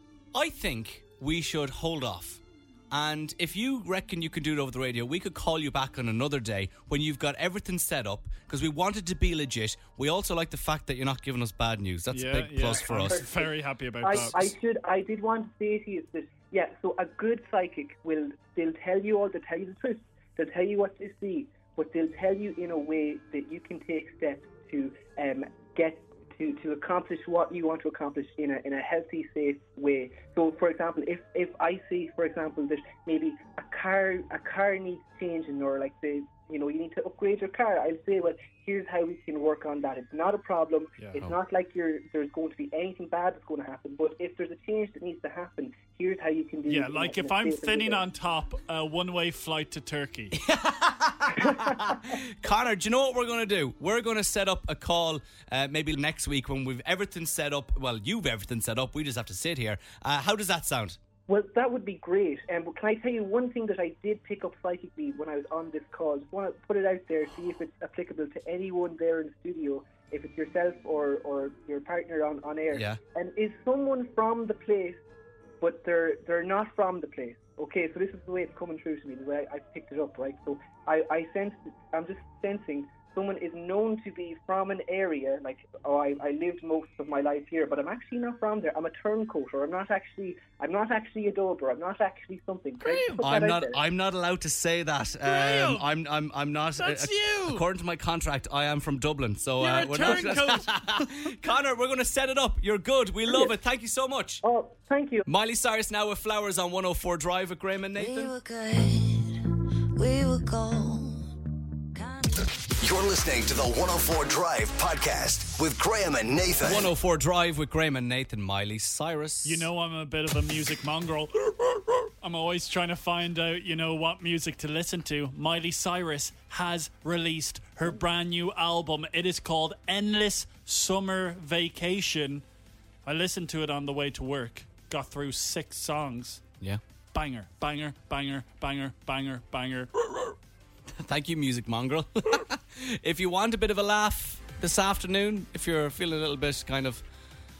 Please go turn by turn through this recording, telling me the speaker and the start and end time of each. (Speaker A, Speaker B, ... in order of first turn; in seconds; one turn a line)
Speaker A: 0.3-13.2
Speaker B: 12.1-14.5
Speaker C: 12.9-48.0
Speaker B: 41.0-41.3
Speaker B: 46.6-50.4
Speaker A: 50.3-61.0
Speaker C: 61.3-75.0
Speaker A: 72.7-73.0
Speaker C: 75.6-93.8
Speaker B: 92.8-93.3
Speaker A: 93.2-104.4
Speaker B: 95.2-95.9
Speaker B: 96.8-97.6
Speaker B: 99.6-101.1
Speaker C: 103.3-103.5
Speaker C: 104.4-105.2
Speaker A: 105.2-108.3
Speaker D: 108.0-109.3
Speaker D: 110.0-111.2
Speaker E: 112.8-116.9
Speaker A: 116.6-119.7
Speaker B: 119.4-132.4
Speaker B: 133.0-136.4
Speaker B: 137.1-139.9
Speaker A: 141.0-147.0